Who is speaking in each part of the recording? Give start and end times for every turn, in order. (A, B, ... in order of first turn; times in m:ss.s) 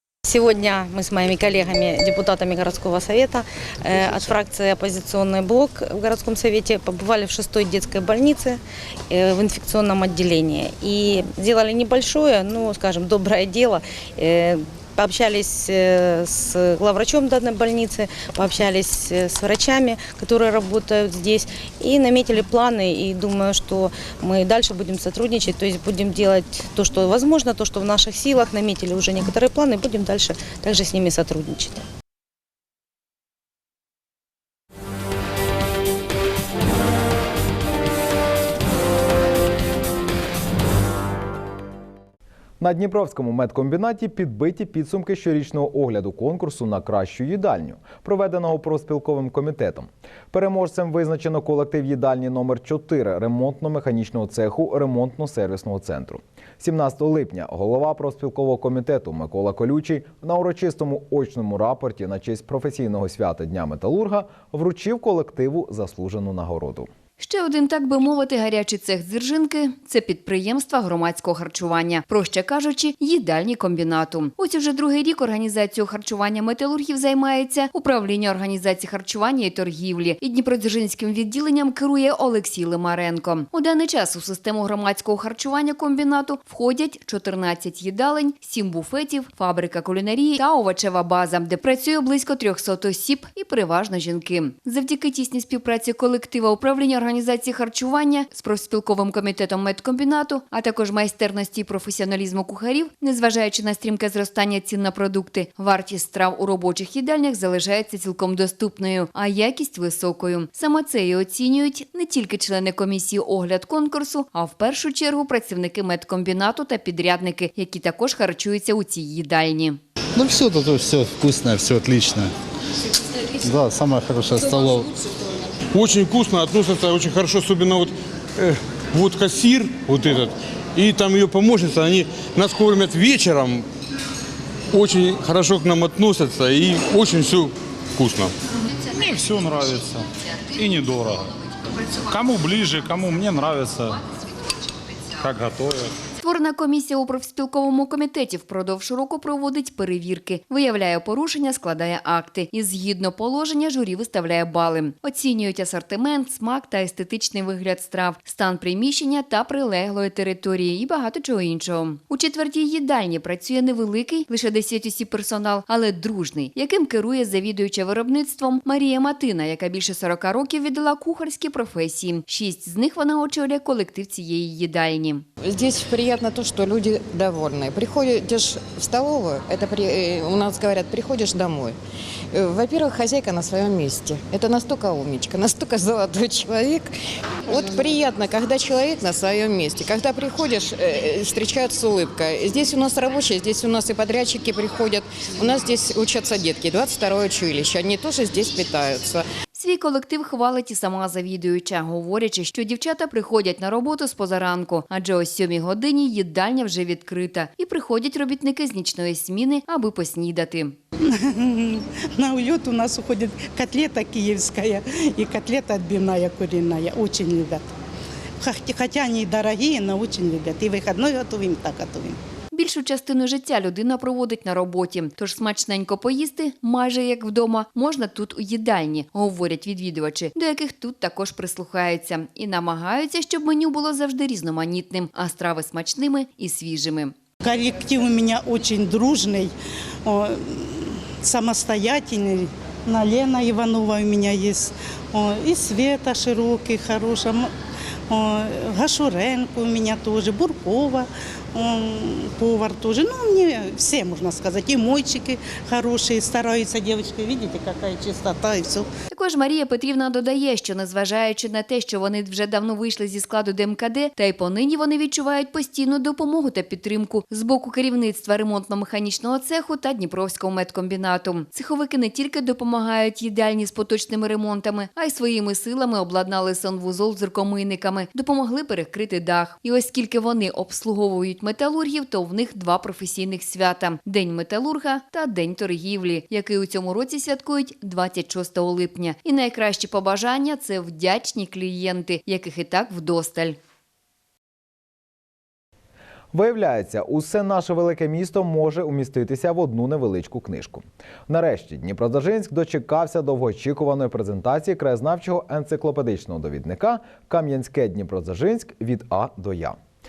0:00.2-0:31.8 A
0:42.6-1:06.9 B
1:07.2-1:59.8 C
2:00.2-2:02.3 D
2:03.4-2:04.9 D
2:05.7-2:13.6 E
2:14.7-2:18.3 E
2:26.2-2:55.2 C
2:55.4-3:01.8 F
3:02.3-3:06.9 F
3:07.5-3:19.2 F
3:19.5-3:30.8 C
3:31.0-3:37.6 G
3:38.4-3:42.2 G
3:42.5-3:57.1 C
3:57.4-3:59.5 G
4:00.0-4:07.5 G
4:08.1-4:18.9 G
4:19.1-4:53.6 C
4:56.3-5:09.8 B